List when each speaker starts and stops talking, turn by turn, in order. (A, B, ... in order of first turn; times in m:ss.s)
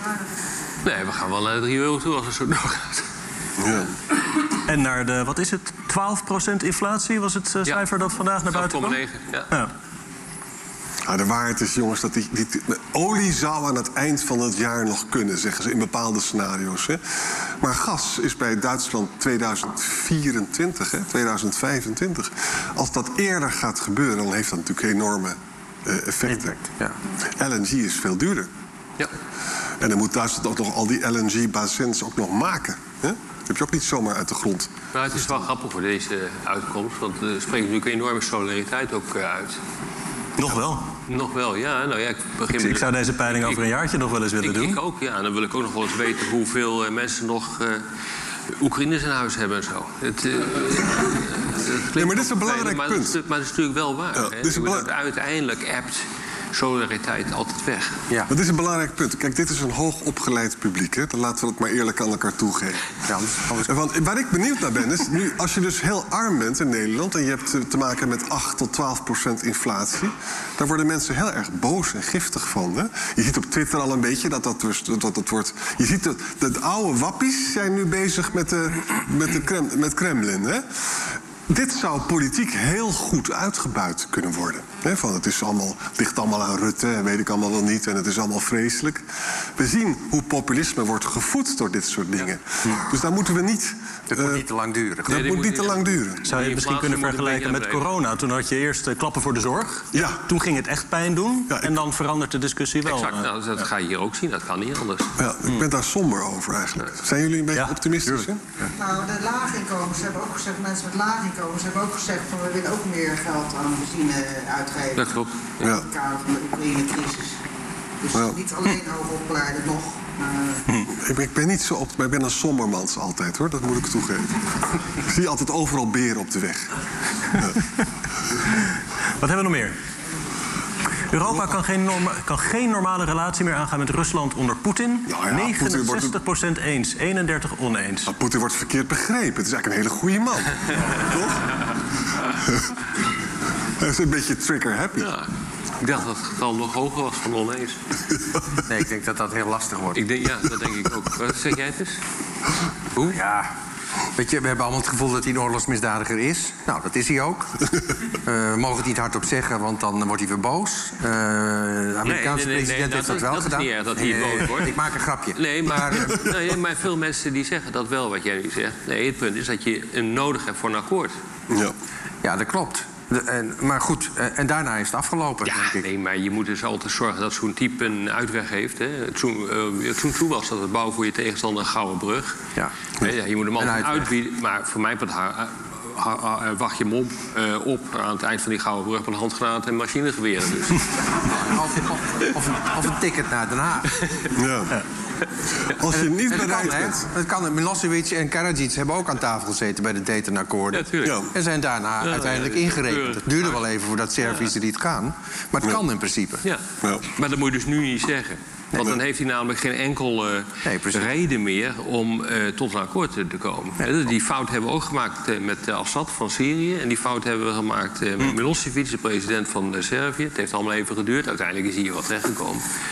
0:00.8-0:03.1 A
0:03.6-0:03.9 B
0:04.7-0:09.0 C
0:08.5-0:09.5 A
0:11.1-0:17.0 B
0:17.6-0:26.6 B
0:27.4-0:28.5 B
0:29.8-0:34.7 B
0:34.9-0:39.6 A
0:40.4-0:40.9 C
0:41.1-0:43.6 A
0:42.5-0:44.8 C
0:44.4-0:47.8 A
0:48.6-0:58.0 A
0:51.9-0:53.2 B
0:54.2-0:54.9 B
0:58.3-1:20.6 B
1:03.0-1:03.7 D
1:21.5-1:29.0 B
1:29.6-1:34.4 B
1:34.1-1:35.4 D
1:35.1-1:36.3 B
1:35.1-1:37.8 A
1:36.2-1:43.3 C
1:39.9-1:40.2 B
1:42.8-1:45.2 A
1:45.2-1:48.4 B
1:47.5-1:48.3 C
1:48.8-1:54.9 E
1:54.9-1:55.8 A
1:55.6-1:55.9 B
1:55.9-1:57.3 E
1:58.1-1:58.5 B
1:58.4-2:00.3 E
2:00.9-2:06.7 B
2:09.2-2:09.8 C
2:11.1-2:18.1 C
2:11.2-2:11.6 B
2:15.1-2:16.2 B
2:18.1-2:21.7 B
2:22.3-2:22.8 B
2:23.8-2:25.1 B
2:25.0-2:27.8 A
2:28.6-2:30.0 D
2:29.9-2:32.0 A
2:33.0-2:33.5 D
2:34.2-2:46.3 D
2:42.0-2:44.8 A
2:45.4-2:51.2 A
2:52.2-2:55.8 D
2:55.5-3:02.4 A
3:03.0-3:10.9 A
3:03.6-3:04.1 D
3:11.1-3:14.0 D
3:14.0-3:14.3 A
3:14.3-3:14.8 B
3:15.7-3:17.0 B
3:15.9-3:26.4 D
3:20.7-3:21.2 A
3:21.0-3:21.3 B
3:22.0-3:23.6 A
3:26.4-3:42.6 A
3:30.6-3:31.1 D